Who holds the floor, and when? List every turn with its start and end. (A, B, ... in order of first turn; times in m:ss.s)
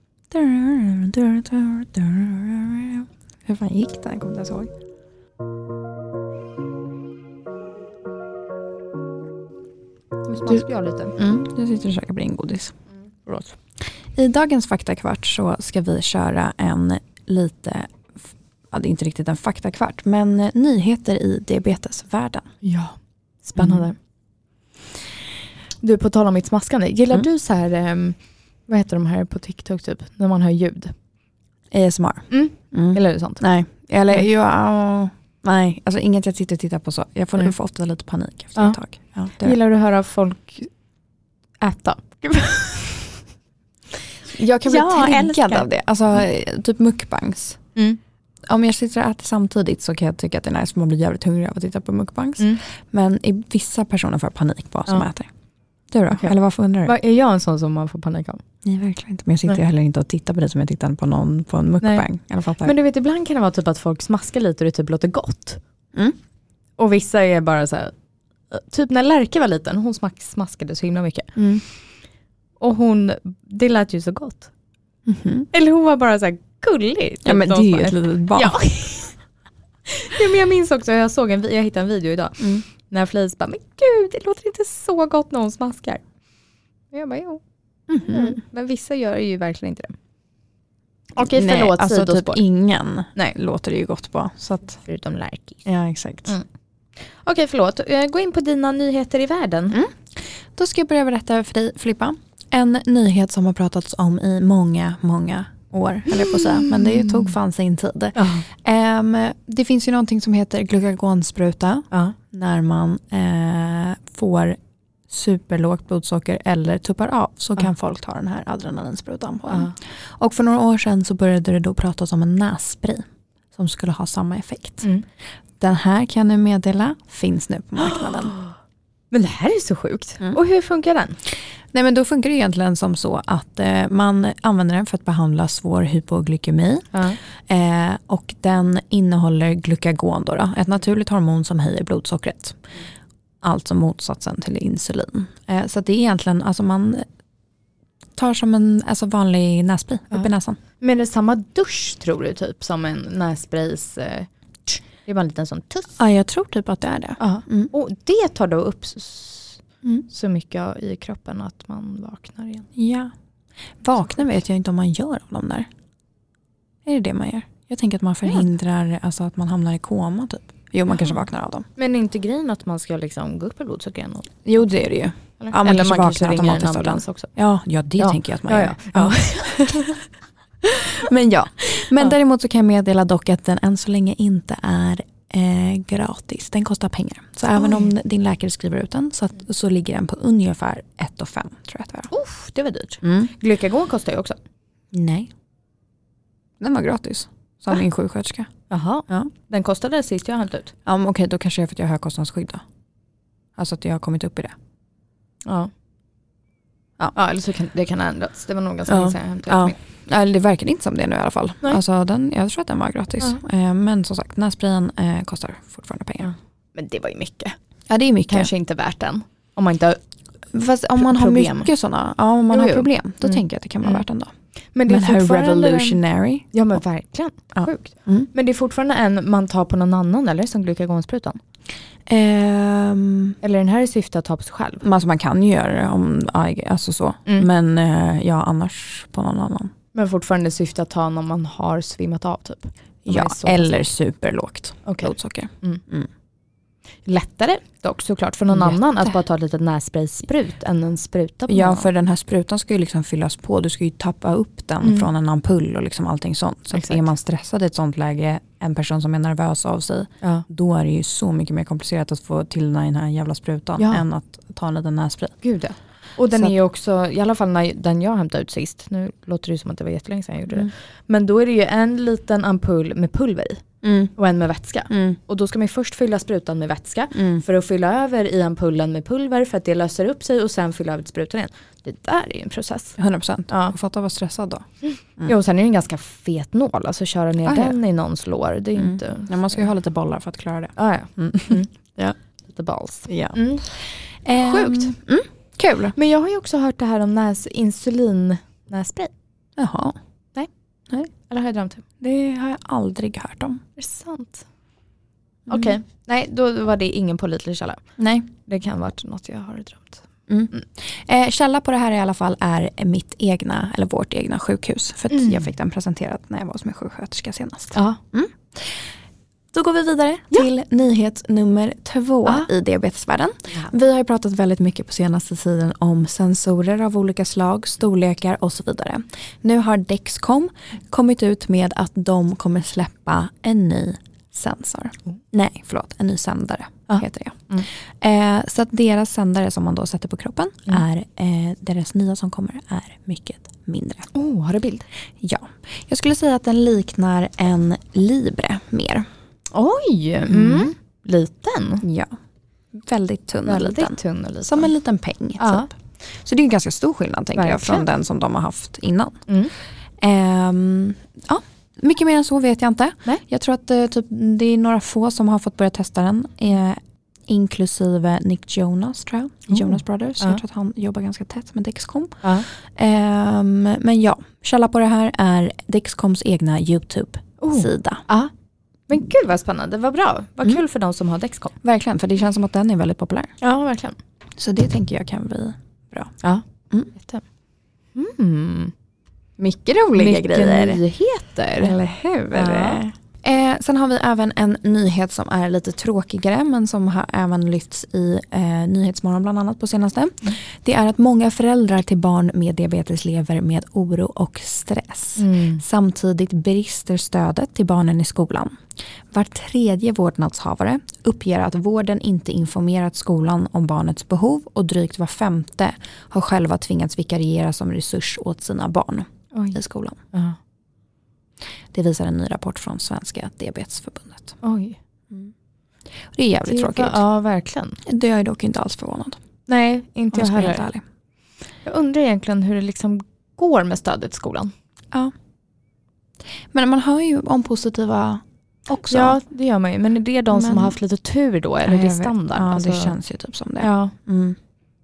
0:00.3-0:04.7 A
0:10.3-0:11.1 B
0:11.2-0:12.7 A
0:13.2-0:13.6 B
0:14.1-0:18.2 A
0:18.7-0:22.5 A
0:22.6-0:23.9 B
0:23.6-0:23.8 A
0:25.8-0:28.2 B
0:28.7-0:30.9 B
0:31.7-0:39.6 A
0:32.3-0:33.4 B
0:39.4-0:40.7 B
0:41.6-0:43.2 B
0:44.3-0:47.6 A
0:44.6-0:45.7 B
0:48.5-0:55.3 A
0:55.9-0:56.9 A
0:56.1-0:58.4 B
0:58.6-1:02.7 A
1:02.6-1:05.6 B
1:06.8-1:07.9 B
1:08.5-1:11.3 B
1:11.4-1:11.6 A
1:12.6-1:14.5 B
1:15.1-1:15.5 A
1:15.5-1:19.2 B
1:17.2-1:18.6 A
1:19.9-1:26.0 B
1:22.4-1:22.6 A
1:26.9-1:27.4 B
1:27.9-1:28.4 A
1:28.0-1:29.9 B
1:31.2-1:32.4 B
1:31.2-1:34.8 A
1:34.8-1:35.6 B
1:35.6-1:36.4 A
1:37.1-1:39.8 B
1:39.7-2:04.9 A
1:46.1-1:47.3 B
1:48.1-1:48.4 B
1:59.5-1:59.7 B
2:05.6-2:08.4 A
2:07.8-2:08.4 B
2:09.1-2:11.2 B
2:11.7-2:22.6 A
2:16.9-2:17.2 B
2:23.4-2:27.0 A
2:28.2-2:30.6 A
2:30.8-2:35.9 B
2:35.9-2:37.7 A
2:37.2-2:42.7 B
2:42.8-2:43.1 A
2:43.8-2:45.7 A
2:46.8-2:51.7 A
2:51.8-2:54.3 B
2:54.4-2:59.9 A
2:55.4-2:57.3 B
2:58.0-3:00.0 B
3:00.9-3:12.1 A
3:12.1-3:14.4 B
3:13.0-3:13.3 A
3:14.9-3:15.3 A
3:16.6-3:18.5 A
3:18.7-3:20.7 B
3:20.8-3:22.6 A
3:23.6-3:24.5 A
3:27.1-3:29.8 B
3:28.9-3:36.3 A
3:36.2-3:37.5 B
3:37.9-3:38.5 A
3:38.3-3:40.0 B
3:40.5-3:44.3 A
3:41.0-3:41.7 B
3:42.5-3:44.0 B
3:44.8-3:46.0 B
3:44.8-3:46.5 A
3:46.5-3:51.4 B
3:47.5-3:48.3 A
3:52.1-3:53.4 A
3:53.4-3:54.8 B
3:54.8-3:59.7 A
3:59.9-4:03.8 B
4:03.1-4:06.1 A
4:04.8-4:05.8 B
4:07.0-4:11.8 B
4:08.5-4:09.1 A
4:11.5-4:25.4 A
4:16.7-4:17.0 B
4:23.8-4:24.0 B
4:25.4-4:33.6 B
4:33.8-4:34.1 A
4:34.2-4:43.0 B
4:34.9-4:35.2 A
4:37.1-4:37.4 A
4:43.0-4:44.6 A
4:43.5-4:43.7 B
4:44.8-4:49.6 B
4:47.4-4:47.8 A
4:48.8-4:51.6 A
4:50.8-4:53.6 B
4:53.1-4:56.0 A
4:54.3-4:54.9 B
4:56.0-4:59.1 B
4:59.6-5:00.0 A
5:01.3-5:01.8 B
5:02.0-5:03.6 A
5:03.8-5:04.4 B
5:05.5-5:05.8 A
5:05.5-5:07.8 B
5:08.0-5:08.3 A
5:08.4-5:10.0 B
5:10.3-5:18.8 A
5:15.1-5:15.5 B
5:19.5-5:44.1 A
5:36.9-5:37.6 B
5:44.1-5:44.8 B
5:45.2-5:49.0 A
5:49.5-5:51.8 B
5:50.3-5:50.7 A
5:51.8-5:52.1 A
5:52.7-5:59.2 A
5:53.4-5:54.7 B
5:55.4-5:55.7 B
5:57.3-5:57.8 B
6:00.0-6:18.0 A
6:09.5-6:10.4 B
6:17.4-6:18.3 B
6:18.9-6:21.5 B
6:21.6-6:23.3 A
6:23.4-6:24.0 B
6:24.4-6:26.1 A
6:27.9-6:28.7 B
6:29.4-6:30.8 A
6:30.0-6:31.7 B
6:31.6-7:00.0 A
6:32.3-6:32.8 B
6:45.2-6:45.6 B
6:59.3-6:59.6 B
7:01.7-7:04.3 A
7:04.4-7:04.8 B
7:06.1-7:07.0 A
7:06.4-7:07.8 B
7:07.8-7:09.2 A
7:09.5-7:10.6 B
7:10.1-7:10.8 A
7:11.6-7:14.5 B
7:16.5-7:19.2 A
7:18.9-7:22.9 B
7:20.3-7:20.8 A
7:21.6-7:24.4 A
7:23.6-7:23.9 B